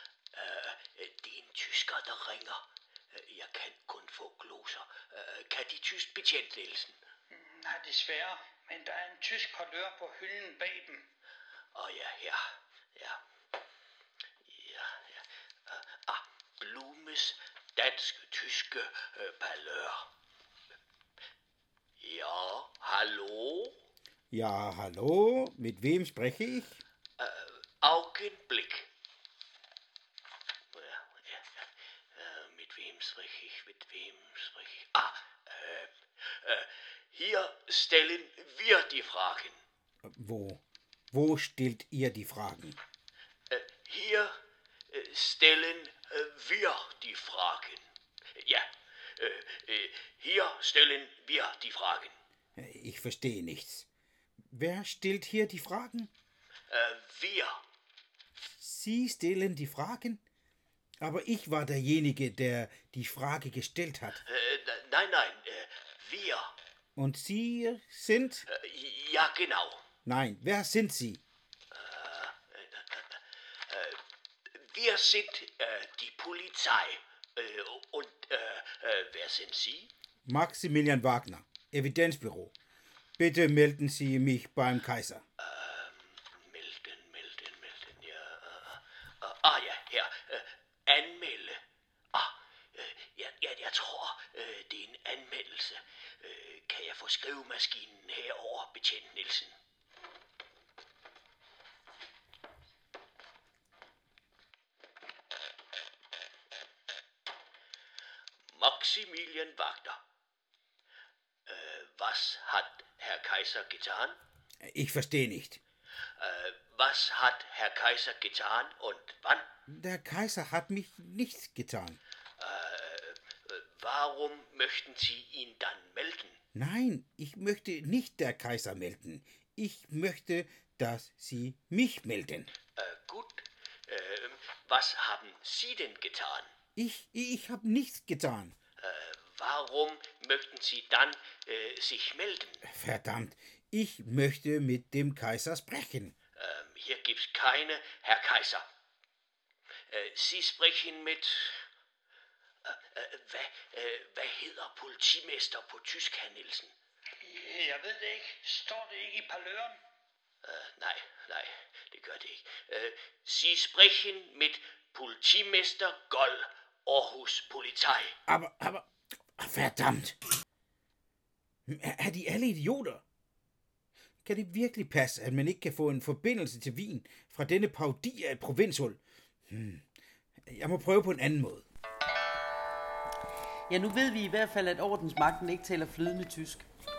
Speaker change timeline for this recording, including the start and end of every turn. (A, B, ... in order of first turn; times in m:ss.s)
0:00.3-0:07.0 A
0:07.3-0:11.1 B
0:11.7-0:12.4 A
0:14.4-0:20.0 A
0:22.0-0:23.8 A
0:24.3-0:26.8 C
0:27.2-0:28.9 A
0:30.7-0:39.6 A
0:40.0-0:42.8 C
0:43.5-0:44.3 A
0:44.9-0:47.8 A
0:48.4-0:48.6 A
0:49.2-0:52.1 A
0:52.6-0:53.9 C
0:54.5-0:56.1 C
0:56.7-0:57.5 A
0:58.4-1:00.2 C
1:01.0-1:04.2 C
1:04.2-1:06.5 A
1:07.0-1:08.5 C
1:08.5-1:09.8 A
1:10.0-1:11.2 C
1:11.7-1:13.2 A
1:13.7-1:14.0 A
1:14.5-1:19.9 A
1:20.2-1:22.5 C
1:23.2-1:25.2 C
1:25.4-1:31.6 A
1:32.1-1:39.5 A
1:48.5-1:50.0 A
1:51.5-1:54.2 A
1:54.7-1:55.6 C
1:56.2-1:59.5 A
1:59.7-2:02.0 C
2:02.4-2:06.4 A
2:06.5-2:12.5 C
2:12.8-2:16.5 A
2:16.8-2:18.5 C
2:18.8-2:22.6 A
2:22.6-2:26.1 C
2:26.4-2:28.6 A
2:29.9-2:31.6 A
2:32.6-2:36.7 A
2:37.2-2:39.8 B
2:40.4-2:48.1 A
2:48.3-2:50.2 C
2:51.7-2:53.0 C
2:54.2-2:59.8 C
3:00.4-3:01.7 C
3:03.7-3:06.7 D